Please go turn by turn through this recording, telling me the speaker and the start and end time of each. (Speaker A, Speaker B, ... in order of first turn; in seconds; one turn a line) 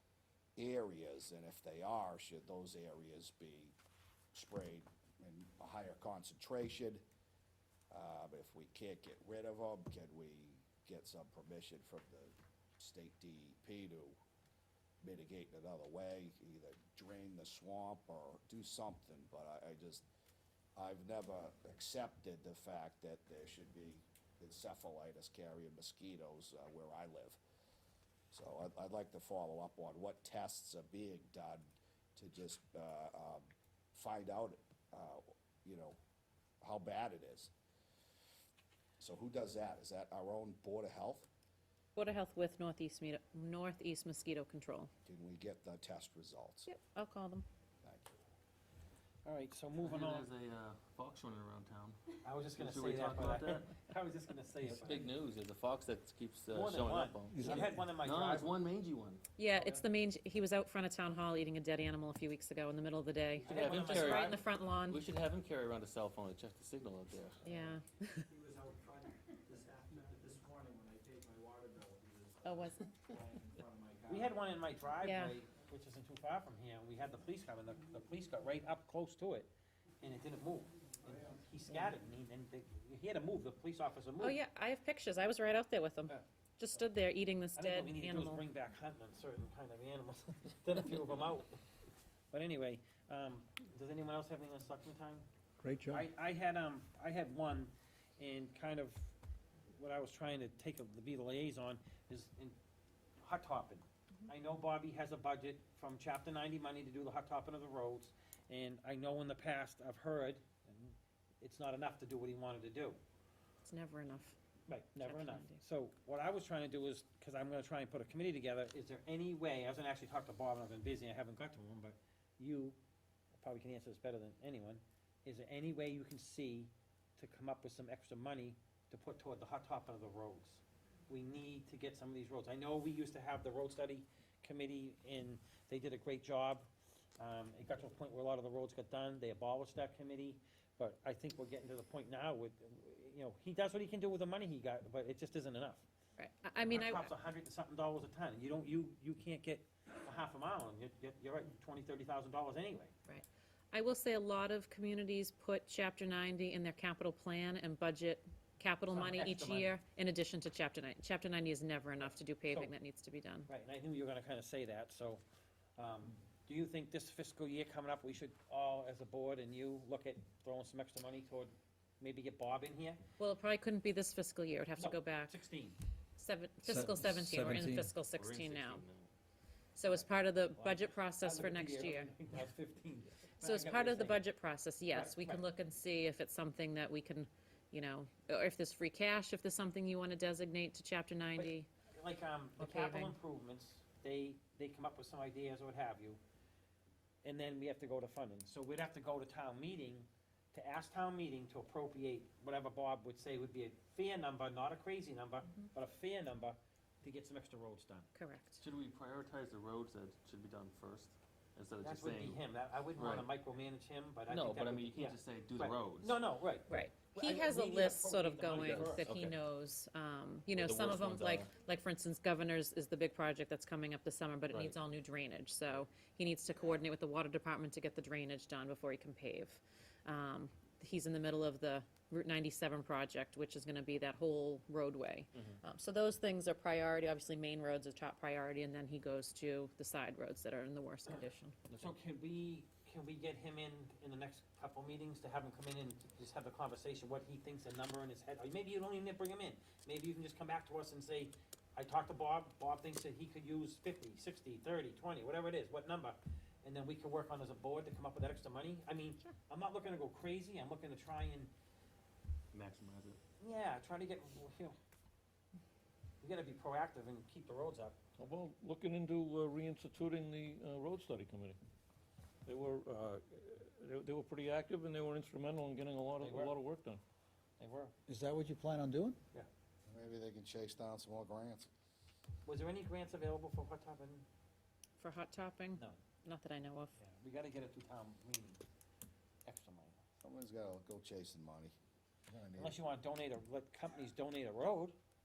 Speaker A: 0.6-3.8
Speaker A: 4.3-7.0
Speaker A: 7.9-14.2
Speaker A: 15.0-20.1
Speaker A: 20.8-27.4
Speaker A: 28.3-36.0
Speaker A: 36.6-37.5
Speaker A: 39.0-41.3
Speaker B: 42.0-44.9
Speaker A: 45.1-46.7
Speaker B: 46.7-47.5
Speaker A: 47.8-48.1
Speaker C: 49.2-50.3
Speaker D: 49.8-52.0
Speaker C: 52.2-55.2
Speaker D: 52.6-53.7
Speaker D: 54.7-59.2
Speaker C: 56.5-58.6
Speaker E: 57.3-57.6
Speaker B: 59.4-65.0
Speaker C: 63.4-64.4
Speaker D: 63.5-64.3
Speaker D: 64.9-67.4
Speaker B: 67.4-68.2
Speaker F: 68.3-72.4
Speaker B: 72.4-73.3
Speaker F: 73.1-74.3
Speaker C: 74.1-84.4
Speaker B: 75.0-75.4
Speaker B: 84.2-88.4
Speaker C: 87.5-91.6
Speaker C: 92.3-95.3
Speaker E: 95.6-96.0
Speaker C: 95.9-99.1
Speaker C: 99.8-102.6
Speaker C: 103.2-113.0
Speaker B: 113.7-114.4
Speaker C: 114.7-122.8
Speaker B: 115.0-115.6
Speaker C: 123.4-136.7
Speaker C: 137.2-145.9
Speaker B: 146.2-147.1
Speaker C: 146.6-152.9
Speaker B: 153.1-163.5
Speaker C: 158.9-159.7
Speaker C: 163.5-165.2
Speaker C: 165.8-173.0
Speaker B: 173.2-175.4
Speaker C: 174.8-175.8
Speaker B: 176.2-178.8
Speaker E: 176.7-177.9
Speaker D: 178.2-179.1
Speaker B: 179.8-182.1
Speaker C: 179.9-184.3
Speaker B: 183.4-191.7
Speaker C: 184.9-185.4
Speaker C: 191.3-196.2
Speaker B: 192.6-193.2
Speaker C: 197.2-208.1
Speaker B: 208.2-208.6
Speaker D: 208.6-212.4
Speaker C: 211.8-219.1
Speaker D: 213.0-213.3
Speaker D: 214.3-216.2
Speaker B: 216.7-241.8
Speaker D: 218.7-219.4
Speaker D: 220.5-221.5
Speaker D: 224.5-224.8
Speaker C: 241.8-261.5
Speaker D: 262.5-263.2
Speaker C: 263.4-264.8
Speaker C: 266.2-268.0
Speaker G: 268.2-271.6
Speaker G: 272.5-277.0
Speaker C: 276.2-276.6
Speaker C: 277.6-277.9
Speaker E: 278.1-279.2
Speaker A: 279.9-281.7
Speaker C: 282.4-284.3
Speaker B: 285.0-286.9
Speaker C: 285.7-286.0
Speaker C: 287.0-288.6
Speaker C: 289.4-290.0
Speaker A: 290.2-291.8
Speaker A: 292.3-292.8
Speaker C: 292.6-295.0